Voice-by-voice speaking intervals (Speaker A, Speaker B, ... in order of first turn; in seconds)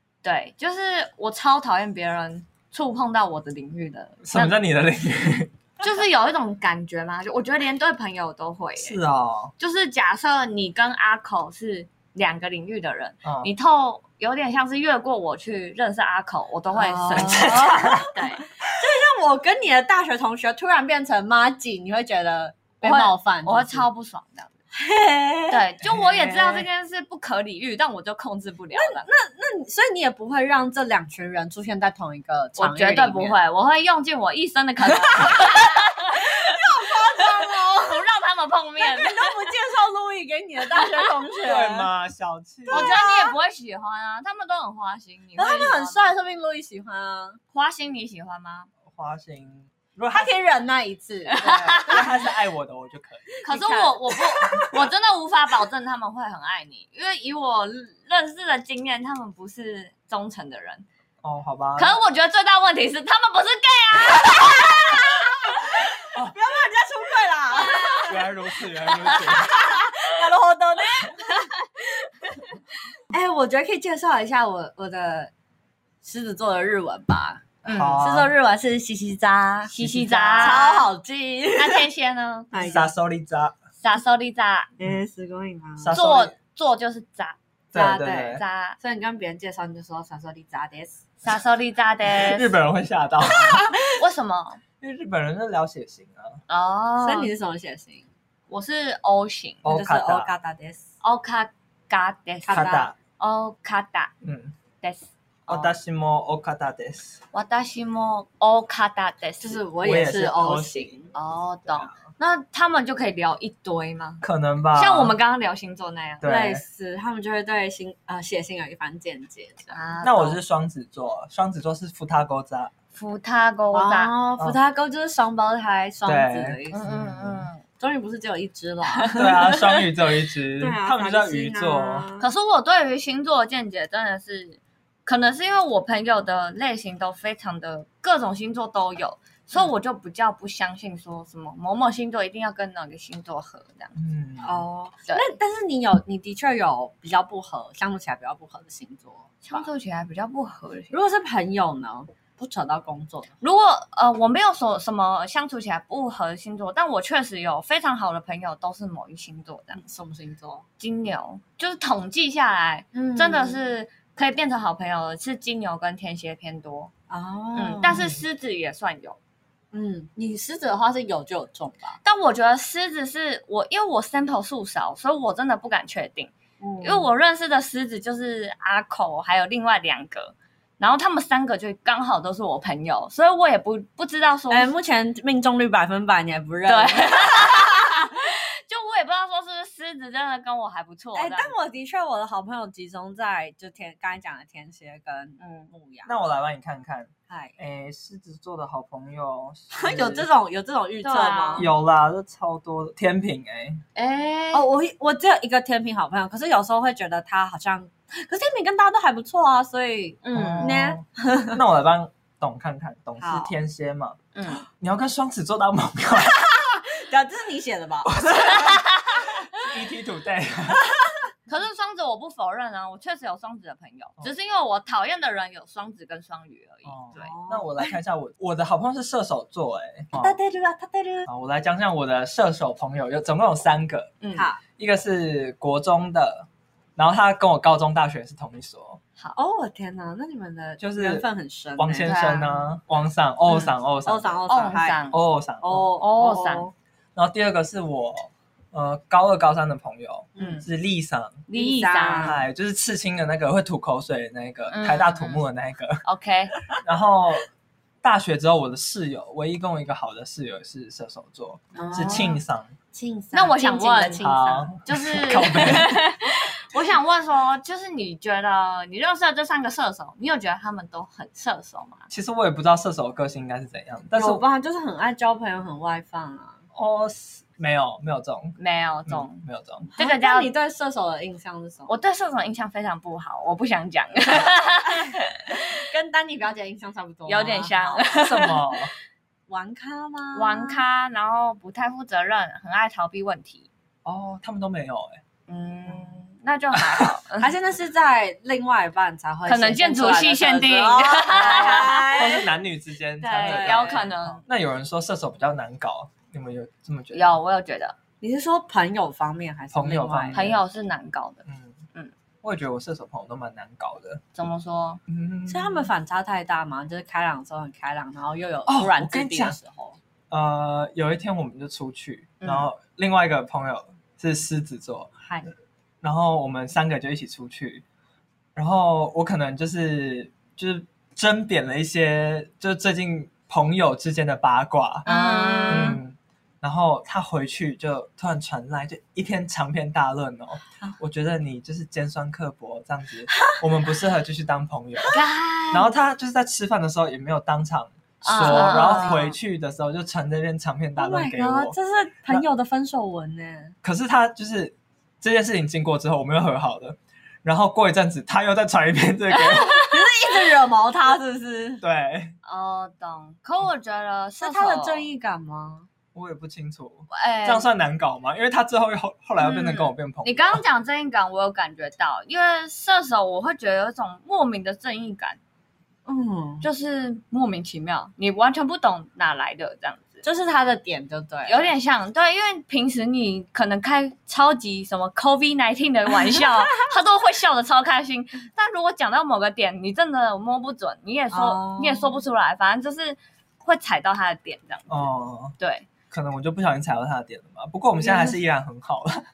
Speaker A: 0.2-4.5, 5.8-9.0, 9.6-18.4, 22.8-24.5, 25.5-29.1, 32.6-36.6, 37.2-39.5, 42.7-46.1, 47.5-48.7, 51.3-52.1, 53.4-60.9, 61.8-65.7, 67.5-68.2, 68.9-69.8, 71.1-72.3, 77.6-78.0, 79.7-80.9, 81.5-82.5, 83.8-84.7, 85.9-88.8, 91.2-92.5, 93.8-94.6, 96.5-97.3, 98.5-99.6, 101.0-104.1, 104.8-105.7, 107.3-109.6, 111.1-114.2, 114.7-116.2, 119.7-120.4, 122.9-124.1, 126.7-127.6, 132.2-143.9, 149.4-150.9, 153.4-159.8, 160.8-166.9, 167.6-169.2, 172.0-184.7, 186.7-191.5, 195.4-195.7, 201.0-201.7, 203.9-204.7, 210.2-210.8, 214.3-214.7, 218.6-219.3, 221.5-227.3, 234.2-234.5, 242.0-242.7, 244.5-245.2, 246.0-246.7, 251.5-252.4, 254.7-255.4, 256.0-256.6, 263.3-272.1, 278.6-279.4, 279.9-280.5, 281.9-285.6, 287.2-288.6, 290.3-293.7, 295.5-297.5, 299.4-302.3, 303.2-304.4, 307.1-307.9, 310.3-311.4, 314.3-315.0, 322.4-322.7, 335.1-336.0, 345.1-345.9, 348.2-349.4, 359.4-359.9, 362.4-365.0, 367.1-367.7, 369.4-375.4, 376.6-380.2, 381.4-395.9
Speaker B: 4.2-5.5, 8.8-9.5, 13.2-13.5, 17.4-18.1, 25.8-26.6, 41.4-43.1, 48.9-50.4, 51.7-53.4, 61.2-62.0, 68.0-69.7, 77.7-78.3, 79.8-80.6, 82.6-83.5, 85.8-86.3, 87.7-88.4, 92.0-93.7, 94.8-96.4, 99.6-100.3, 102.5-102.9, 104.2-104.5, 105.5-107.2, 109.8-111.0, 111.7-112.0, 114.2-115.1, 116.2-116.6, 120.0-122.7, 126.0-127.5, 129.2-132.1, 143.9-144.7, 196.1-200.3, 201.6-203.8, 210.3-216.5, 218.1-218.7, 219.6-220.8, 226.8-230.4, 231.3-234.2, 234.8-239.0, 240.8-244.4, 245.1-245.9, 247.1-251.4, 252.2-256.0, 256.8-257.5, 258.0-262.7, 264.2-266.0, 272.1-274.4, 276.7-279.9, 288.1-288.9, 294.0-295.2, 296.7-297.1, 302.1-307.4, 309.7-310.6, 311.4-311.8, 312.4-314.2, 315.1-315.9, 318.7-319.6, 320.3-325.1, 326.0-327.8, 328.5-335.1, 335.7-345.2, 345.7-351.8, 353.8-359.8, 361.8-362.4, 366.1-370.6, 394.9-395.6, 396.1-399.2
Speaker C: 16.7-18.1, 18.7-23.9, 24.7-25.6, 28.7-33.4, 34.9-38.0, 38.8-41.9, 42.7-43.3, 45.4-47.4, 50.1-52.1, 53.4-54.8, 65.8-68.1, 69.2-71.5, 73.1-75.3, 76.0-77.4, 78.0-81.9, 82.5-82.9, 84.8-86.0, 88.8-91.0, 93.5-93.7, 97.0-98.1, 99.7-100.8, 102.5-102.9, 109.4-111.1, 116.2-119.8, 123.7-126.8, 127.8-129.9, 130.6-132.3, 144.4-149.7, 150.9-153.3, 159.7-160.6, 162.9-163.6, 167.1-168.2, 169.7-172.0, 176.6-177.1, 184.5-188.0, 191.1-196.2, 197.3-197.6, 199.7-201.7, 204.5-211.6, 213.2-213.5, 216.5-218.9, 227.1-227.9, 230.2-231.3, 234.3-234.6, 239.3-242.1, 244.0-245.0, 245.6-246.7, 250.3-250.6, 251.5-252.4, 261.7-262.4, 262.9-264.7, 274.1-276.6, 279.9-282.0, 284.3-288.1, 289.5-290.8, 297.4-302.4, 303.3-304.1, 308.2-310.4, 315.5-320.0, 325.2-325.5, 335.1-336.0, 343.3-343.6, 348.3-349.2, 351.0-353.7, 359.7-361.8, 364.4-365.9, 376.1-376.7, 380.2-381.7, 386.3-386.8, 391.3-392.2, 398.0-398.4